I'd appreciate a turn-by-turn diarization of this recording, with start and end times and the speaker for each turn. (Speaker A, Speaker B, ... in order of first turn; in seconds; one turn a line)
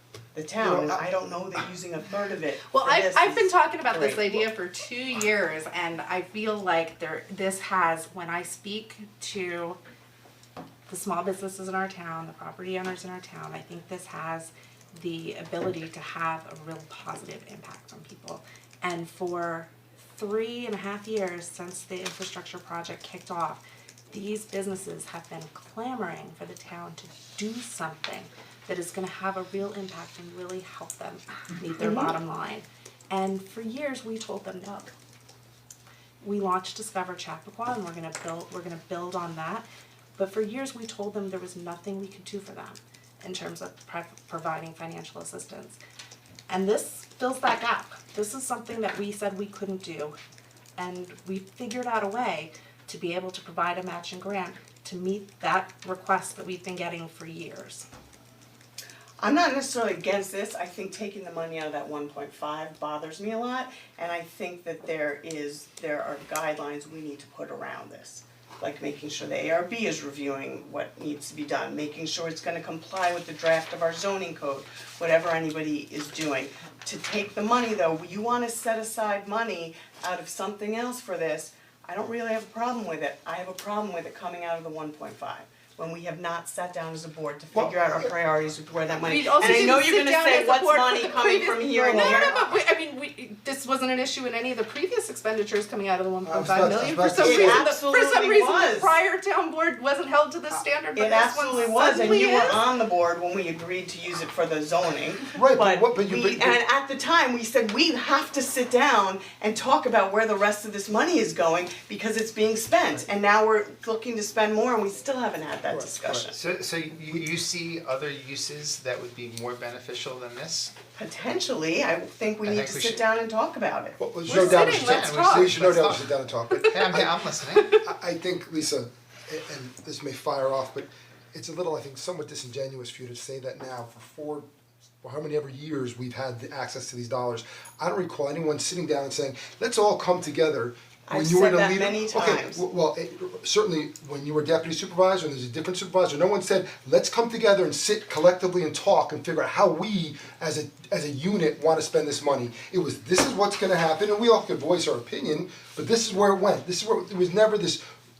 Speaker A: 0.3-4.5
Speaker B: 0.6-1.0
Speaker C: 2.7-9.8
Speaker C: 10.9-34.9
Speaker A: 31.7-32.1
Speaker C: 36.2-45.8
Speaker C: 46.5-50.1
Speaker C: 50.8-57.9
Speaker A: 59.2-92.5
Speaker B: 87.5-88.1
Speaker C: 89.0-102.7
Speaker B: 96.3-97.6
Speaker A: 97.2-99.0
Speaker A: 100.9-116.4
Speaker B: 105.3-106.6
Speaker B: 115.7-116.2
Speaker D: 116.3-120.7
Speaker A: 121.0-124.0
Speaker D: 122.4-123.0
Speaker B: 124.0-127.1
Speaker D: 124.2-127.8
Speaker C: 124.2-125.7
Speaker C: 126.5-126.8
Speaker B: 127.8-134.5
Speaker B: 135.0-157.8
Speaker A: 141.1-142.6